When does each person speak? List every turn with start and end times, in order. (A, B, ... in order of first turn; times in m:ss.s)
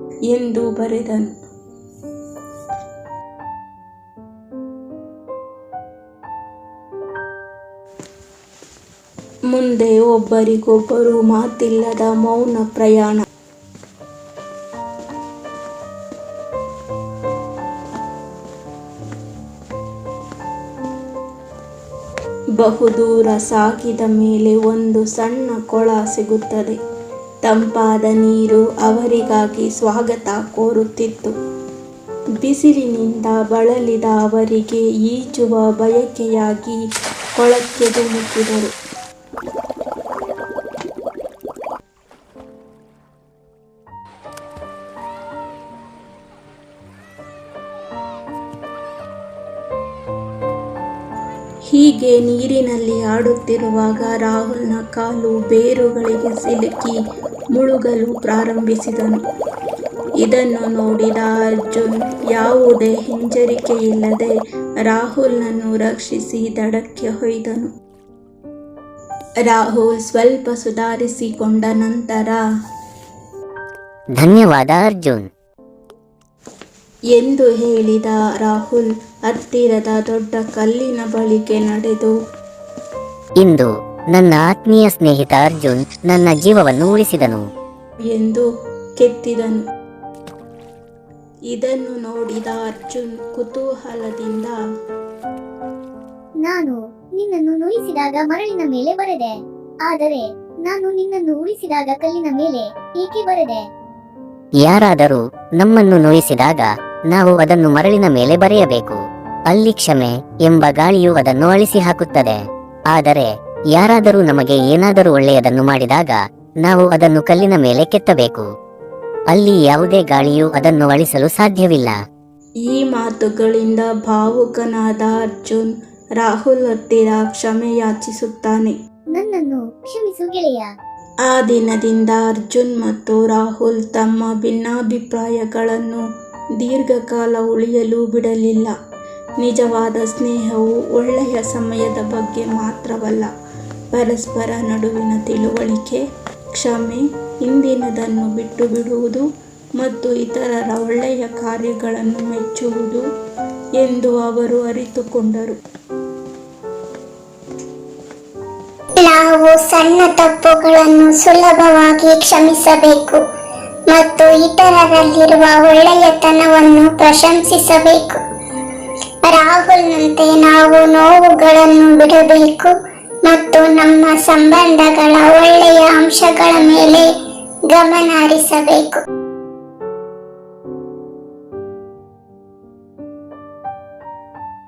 0:00.3-0:01.3 A
0:09.5-0:13.2 A
0:22.6-0:26.8 A
0:27.4-0:31.3 A
0:32.4-0:36.8 A
0:37.4-0:38.7 A
0:51.7-0:57.0 A
0:57.5-0:59.2 A
1:00.2-1:04.3 A
1:04.9-1:07.7 A
1:09.5-1:12.4 A
1:14.2-1:15.3 B
1:17.1-1:22.1 A
1:23.4-1:27.5 B
1:28.0-1:28.5 A
1:29.0-1:29.6 A
1:31.5-1:34.6 A
1:36.4-1:39.3 C
1:39.9-1:43.6 C
1:44.6-1:49.0 B
1:49.5-1:52.4 B
1:52.9-1:58.4 B
1:59.3-2:02.0 B
2:02.7-2:08.8 A
2:09.1-2:10.7 C
2:11.3-2:16.0 A
2:16.6-2:18.7 A
2:19.4-2:23.3 A
2:23.9-2:26.0 A
2:26.6-2:29.2 A
2:29.8-2:33.0 A
2:33.8-2:35.6 A
2:39.0-2:43.2 D
2:43.9-2:48.2 D
2:49.2-2:57.1 D
2:57.7-2:59.0 D